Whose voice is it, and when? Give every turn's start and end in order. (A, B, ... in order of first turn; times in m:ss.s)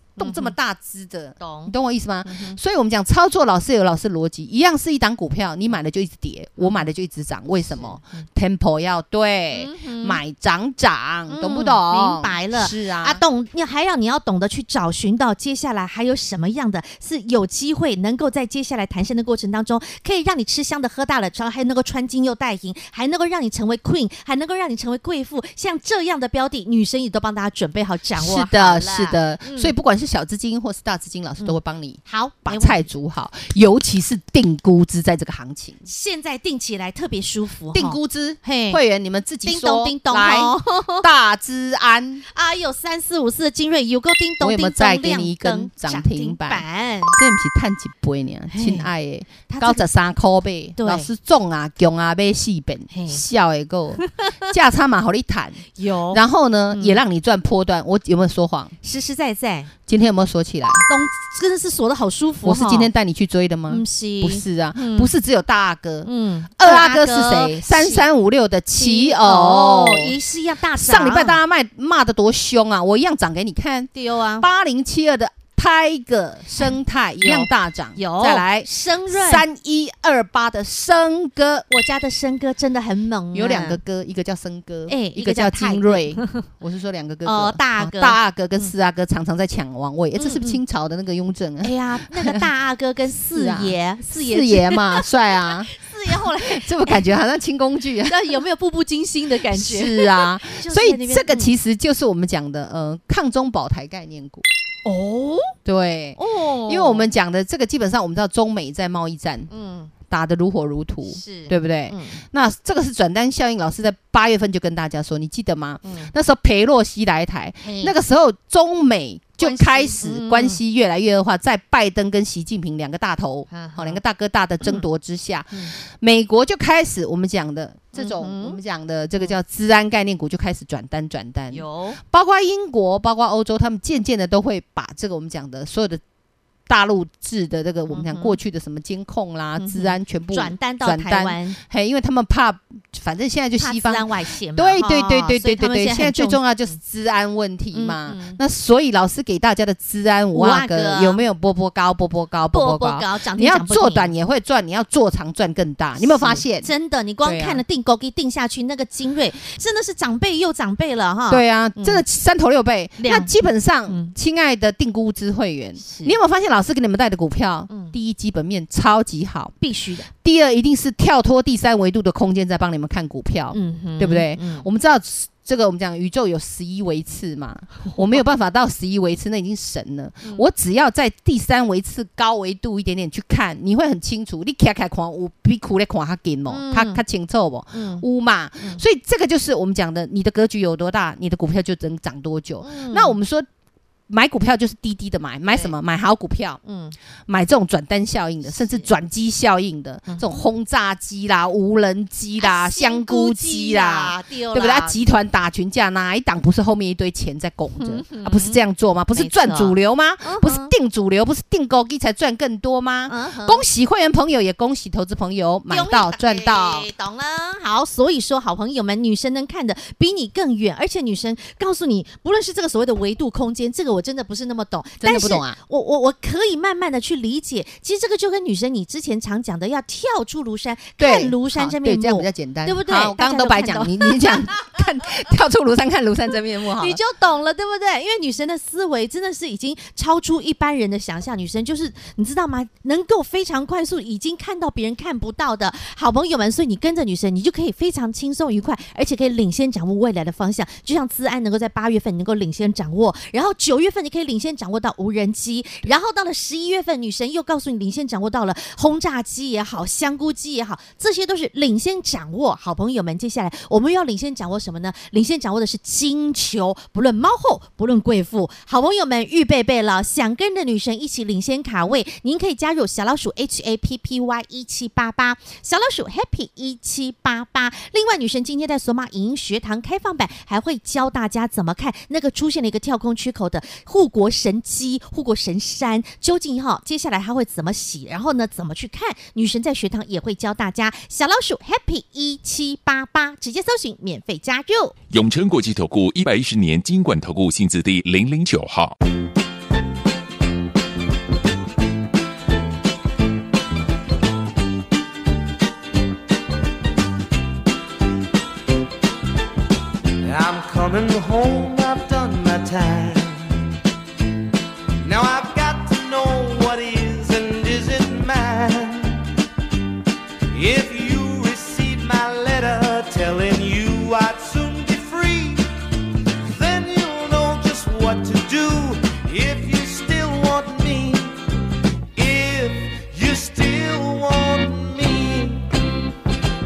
0:00.2-0:13.2 A
0:00.2-0:00.5 B
0:01.4-0:01.7 B
0:02.2-0:02.6 B
0:06.6-0:06.9 B
0:07.7-0:08.2 B
0:09.5-0:10.2 B
0:11.3-0:29.7 B
0:28.2-0:35.8 A
0:31.4-0:32.8 B
0:35.8-0:38.8 B
0:37.7-0:42.2 A
0:39.4-0:41.1 B
0:42.3-0:47.2 B
0:44.4-0:58.8 A
0:48.5-0:48.9 B
0:49.5-0:49.9 B
0:50.8-0:51.1 B
0:52.9-0:53.2 B
0:54.0-0:54.5 B
0:55.8-0:57.0 B
0:58.8-0:59.7 B
0:59.9-1:00.9 A
1:00.9-1:02.9 B
1:02.4-1:10.1 A
1:03.7-1:05.1 B
1:06.0-1:08.1 B
1:08.7-1:11.4 B
1:10.7-1:21.7 A
1:13.9-1:14.5 B
1:16.6-1:19.4 B
1:21.7-1:23.8 B
1:23.3-1:32.5 A
1:24.9-1:26.4 B
1:27.2-1:28.7 B
1:30.2-1:30.6 B
1:31.6-1:37.1 B
1:33.3-1:38.3 A
1:38.0-1:41.5 B
1:39.5-1:44.4 A
1:44.8-1:45.6 B
1:45.6-1:49.5 A
1:46.2-1:47.1 B
1:49.5-1:49.9 B
1:50.1-2:16.0 A
1:51.1-1:52.2 B
1:55.8-1:56.1 B
1:57.6-1:58.0 B
1:59.4-2:00.6 B
2:03.5-2:04.0 B
2:07.9-2:08.6 B
2:11.5-2:12.0 B
2:16.7-2:36.7 A
2:17.9-2:18.4 B
2:19.6-2:21.6 B
2:23.6-2:26.8 B
2:27.7-2:28.4 B
2:30.3-2:31.2 B
2:32.5-2:34.1 B
2:36.0-2:42.0 B
2:37.2-2:37.6 A
2:41.3-2:49.5 A
2:43.0-2:43.3 B
2:43.9-2:44.1 B
2:45.8-2:46.2 B
2:47.7-2:47.9 B
2:49.6-2:50.1 B
2:50.1-3:13.5 A
2:53.5-2:54.7 B
2:57.8-2:58.2 B
3:06.5-3:07.0 B
3:07.7-3:08.0 B
3:12.6-3:13.2 B
3:14.1-3:16.6 A
3:15.5-3:15.7 B
3:16.6-3:17.0 B
3:17.3-3:36.9 A
3:18.4-3:18.9 B
3:20.1-3:20.4 B
3:22.4-3:25.0 B
3:27.8-3:28.6 B
3:29.1-3:30.7 B
3:33.1-3:33.6 B
3:35.7-3:54.5 B
3:45.0-3:45.6 A
3:51.0-3:57.0 A
3:56.8-4:54.9 B
4:55.1-4:59.0 C
5:10.2-5:13.6 D
5:15.0-5:19.3 D
5:20.5-5:25.7 D
5:26.4-5:31.4 D
5:32.2-5:35.7 D